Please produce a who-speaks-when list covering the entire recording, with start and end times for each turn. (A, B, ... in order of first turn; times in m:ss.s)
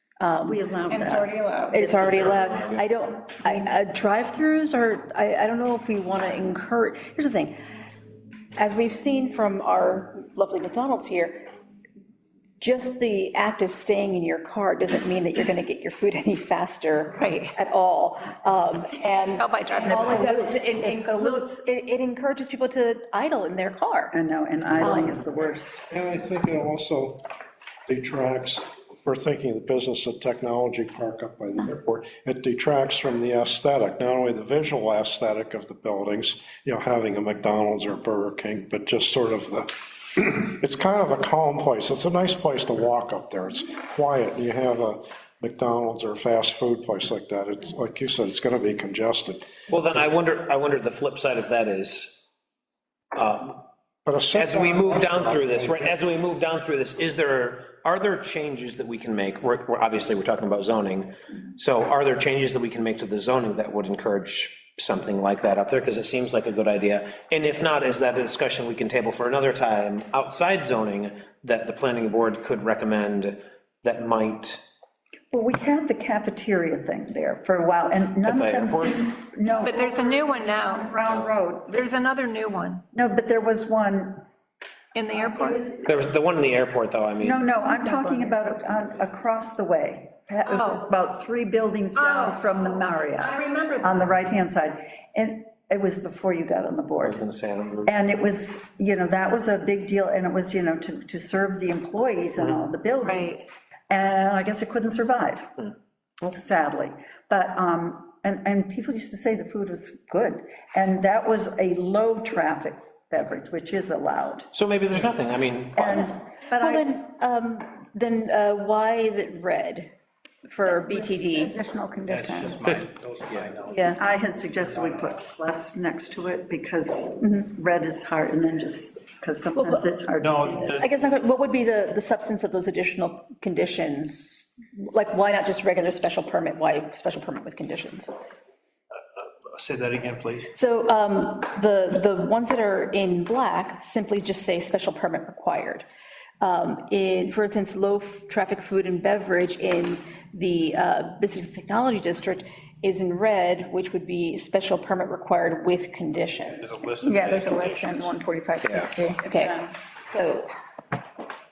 0:00.2-0:00.6 A
0:00.5-0:02.6 B
0:01.0-0:01.4 C
0:01.4-0:01.9 D
0:01.7-0:07.6 A
0:08.6-0:11.5 A
0:12.6-0:24.2 A
0:17.2-0:17.6 C
0:19.3-0:20.7 C
0:19.8-0:21.5 B
0:24.1-0:25.9 B
0:24.7-0:27.2 E
0:24.8-0:25.1 A
0:27.9-0:49.5 E
0:49.7-0:52.3 F
0:53.1-0:53.6 F
0:54.1-0:55.9 E
0:54.3-1:14.6 F
1:15.3-1:21.9 B
1:18.2-1:19.0 F
1:19.6-1:20.9 C
1:21.7-1:22.8 C
1:22.9-1:24.2 B
1:24.9-1:25.6 C
1:25.3-1:25.9 B
1:25.8-1:27.4 F
1:27.2-1:37.2 B
1:27.6-1:28.5 D
1:30.5-1:30.8 C
1:32.0-1:34.0 C
1:37.0-1:38.0 F
1:37.8-1:45.6 B
1:43.1-1:43.4 C
1:46.2-1:54.5 B
1:54.5-1:56.1 F
1:55.8-1:56.9 B
1:56.5-1:59.9 A
2:00.5-2:01.6 A
2:00.7-2:02.8 D
2:02.1-2:03.8 G
2:02.6-2:03.5 F
2:03.7-2:04.0 A
2:03.9-2:10.8 B
2:09.6-2:09.8 A
2:10.2-2:10.9 G
2:10.6-2:18.1 A
2:19.5-2:20.5 G
2:20.5-2:25.8 A
2:26.4-2:36.8 A
2:36.6-2:38.2 G
2:37.0-2:39.8 D
2:39.2-2:40.5 A